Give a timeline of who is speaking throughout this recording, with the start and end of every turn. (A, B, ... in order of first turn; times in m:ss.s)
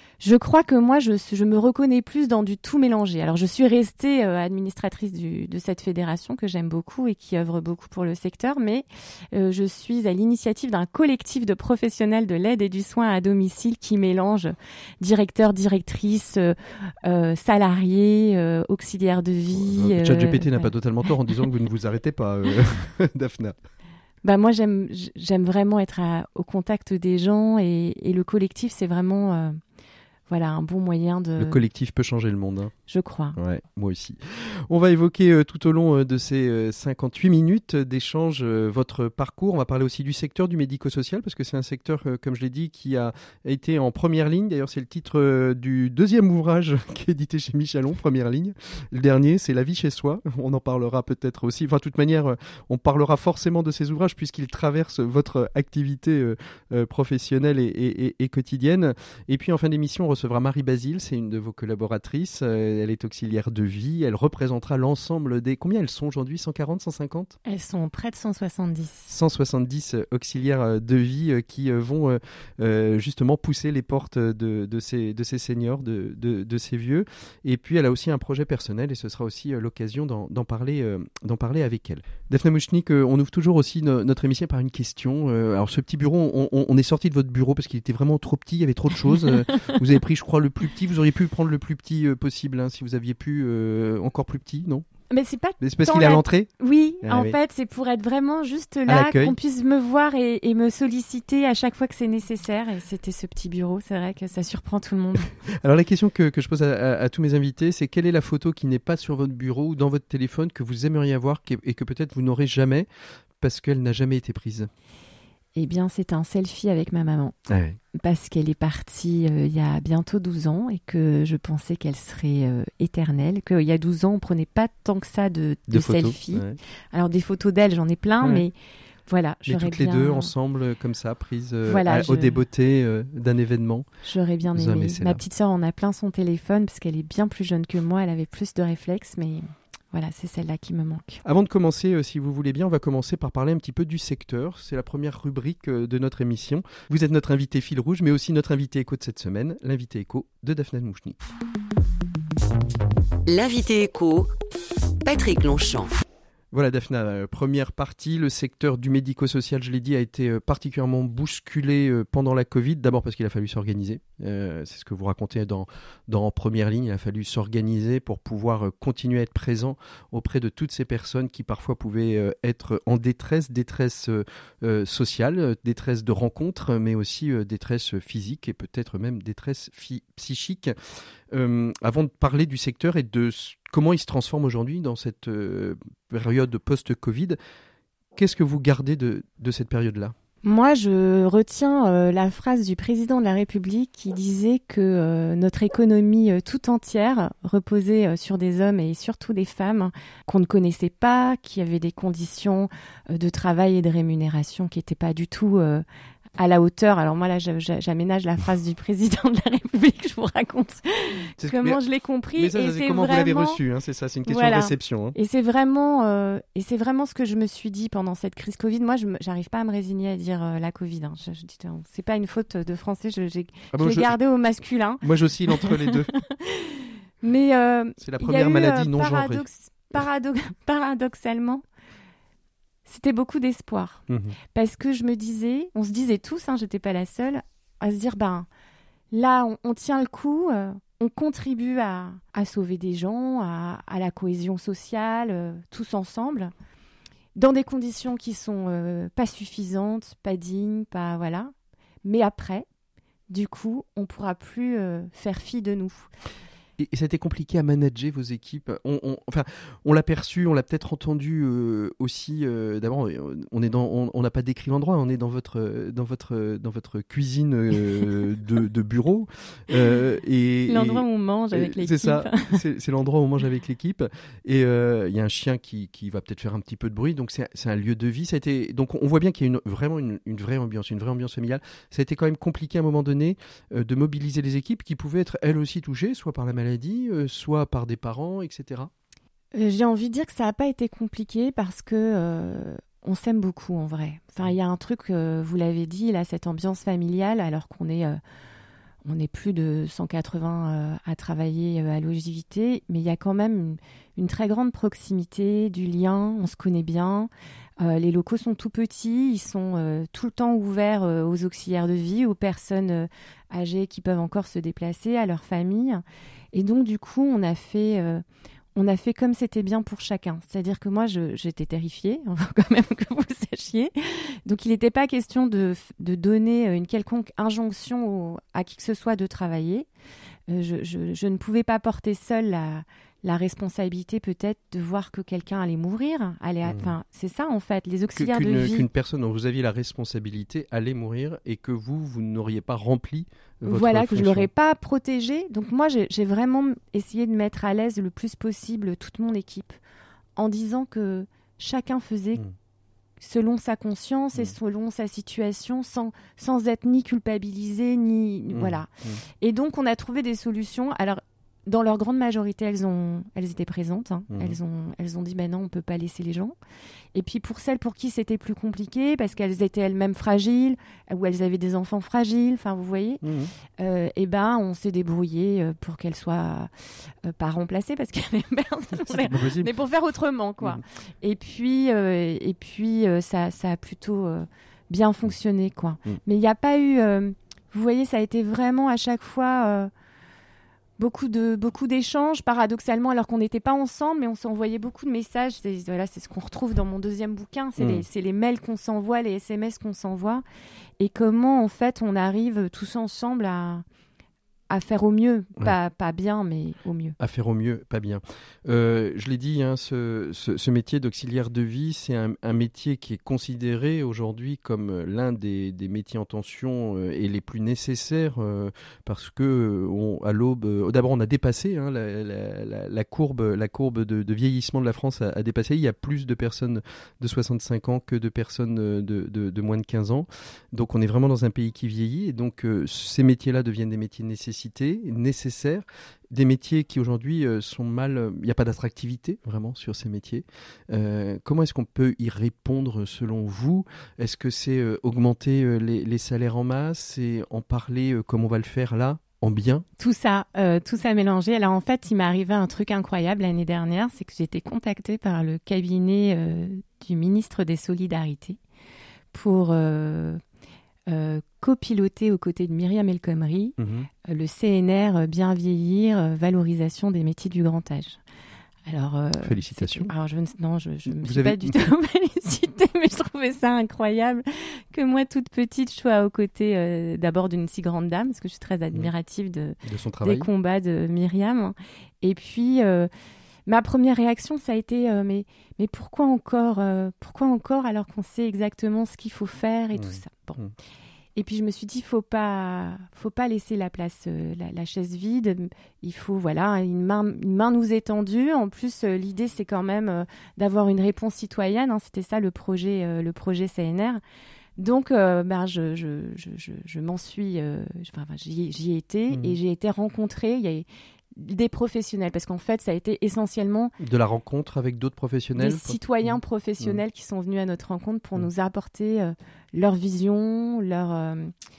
0:00.2-0:20.7 A
0:19.5-0:23.6 B
0:24.2-0:29.6 A
0:30.3-0:31.6 A
0:31.4-0:32.7 B
0:32.9-0:33.4 A
0:33.4-1:07.4 B
1:07.5-1:09.1 A
1:09.1-1:34.9 B
1:29.2-1:29.8 A
1:35.1-1:45.3 A
1:35.6-1:36.5 B
1:37.0-1:37.4 B
1:38.9-1:39.4 B
1:45.5-1:52.9 B
1:53.4-1:54.7 B
1:55.6-1:57.4 A
1:57.5-1:57.8 B
1:58.0-2:08.6 A
2:05.7-2:06.6 B
2:09.1-2:10.3 A
2:09.5-2:13.9 B
2:11.7-2:12.4 A
2:14.0-2:21.2 A
2:14.5-2:15.2 B
2:21.2-2:31.2 B
2:33.3-2:34.3 C
2:35.0-2:35.9 C
2:36.5-3:00.8 B
3:01.3-3:07.4 B
3:08.2-3:10.2 B
3:10.4-3:25.8 A
3:26.4-3:33.6 A
3:31.4-3:31.8 B
3:32.3-3:35.2 B
3:34.3-3:51.6 A
3:43.7-3:44.2 B
3:45.0-3:46.1 B
3:48.0-3:49.4 B
3:52.8-3:54.0 A
3:54.1-3:54.4 B
3:54.5-3:58.5 A
3:59.1-4:06.5 A
4:07.4-4:11.5 A
4:12.0-4:12.7 A
4:13.3-4:16.1 A
4:16.8-4:48.9 B
4:30.7-4:32.6 A
4:49.6-4:58.2 A
4:59.0-5:18.2 A
5:18.8-5:29.9 A
5:30.5-5:38.9 A
5:36.7-5:36.9 B
5:38.2-5:44.5 B
5:43.6-5:49.8 A
5:50.4-5:52.4 A
5:53.2-5:58.9 A
5:58.5-5:59.2 B
5:59.4-6:06.6 A
6:04.3-6:04.6 B
6:07.1-6:13.2 A
6:13.2-6:13.5 B
6:13.8-6:16.7 A
6:17.2-6:29.9 A
6:19.1-6:19.7 B
6:31.0-6:40.4 A
6:37.8-6:38.0 B
6:41.0-6:43.8 A
6:44.7-6:47.2 A
6:47.2-7:29.8 B
7:30.0-7:38.6 A
7:39.3-7:40.4 A
7:41.1-7:48.2 A
7:43.8-7:44.1 B
7:48.9-8:03.1 A
7:49.4-7:50.1 B
7:51.1-7:51.8 B
7:59.8-8:00.5 B
8:03.7-8:10.6 A
8:09.9-8:10.7 B
8:11.4-8:24.2 A
8:24.8-8:33.9 A
8:29.3-8:29.6 B
8:34.0-8:37.0 B
8:35.6-8:41.5 A